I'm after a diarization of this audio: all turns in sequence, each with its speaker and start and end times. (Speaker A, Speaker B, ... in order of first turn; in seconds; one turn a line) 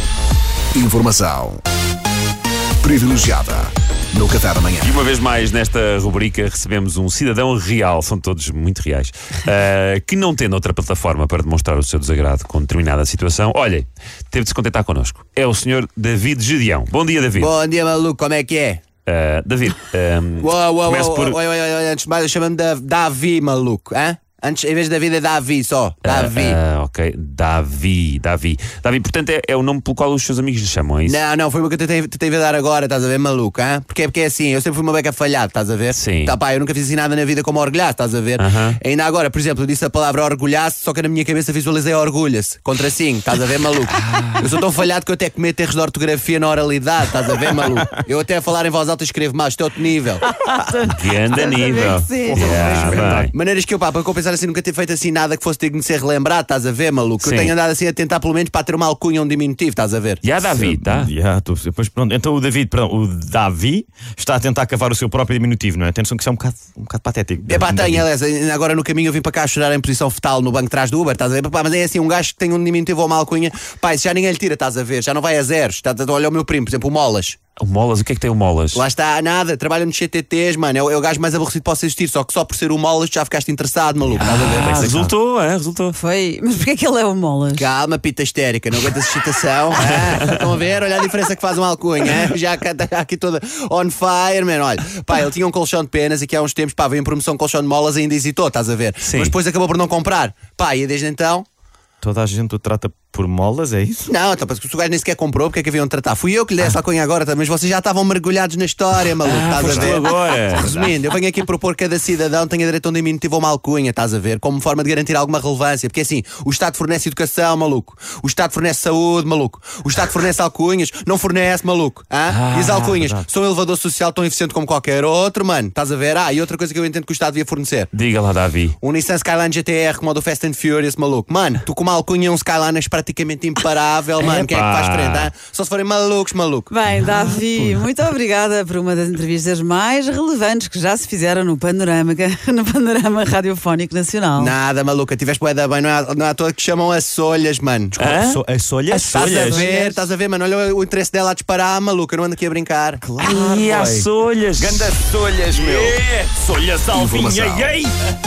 Speaker A: 0.7-1.6
Speaker A: 2.8-5.0
Speaker B: 4.8-17.5
Speaker C: 17.4-18.8
Speaker B: 19.1-21.4
Speaker C: 20.4-26.6
Speaker B: 26.0-31.2
Speaker C: 31.1-50.2
Speaker B: 35.9-36.4
Speaker B: 38.4-38.8
Speaker B: 43.9-44.5
Speaker D: 47.5-48.0
Speaker E: 50.2-53.2
Speaker B: 50.9-53.3
Speaker D: 52.2-53.3
Speaker C: 53.0-60.3
Speaker B: 57.2-57.5
Speaker B: 60.2-61.1
Speaker D: 60.4-68.0
Speaker C: 67.5-77.4
Speaker B: 77.6-78.8
Speaker C: 78.7-85.1
Speaker B: 84.2-86.0
Speaker E: 85.9-87.7
Speaker C: 87.5-101.5
Speaker B: 89.8-90.4
Speaker B: 99.0-99.3
Speaker D: 102.0-104.1
Speaker C: 104.1-127.9
Speaker B: 109.2-111.0
Speaker B: 122.3-122.9
Speaker D: 122.9-123.3
Speaker B: 127.9-128.8
Speaker C: 128.8-136.7
Speaker B: 134.2-135.3
Speaker E: 136.7-144.6
Speaker C: 144.4-148.0
Speaker B: 148.0-149.7
Speaker D: 148.0-150.0
Speaker C: 149.1-153.1
Speaker D: 153.0-157.9
Speaker B: 153.2-155.0
Speaker A: 156.9-157.8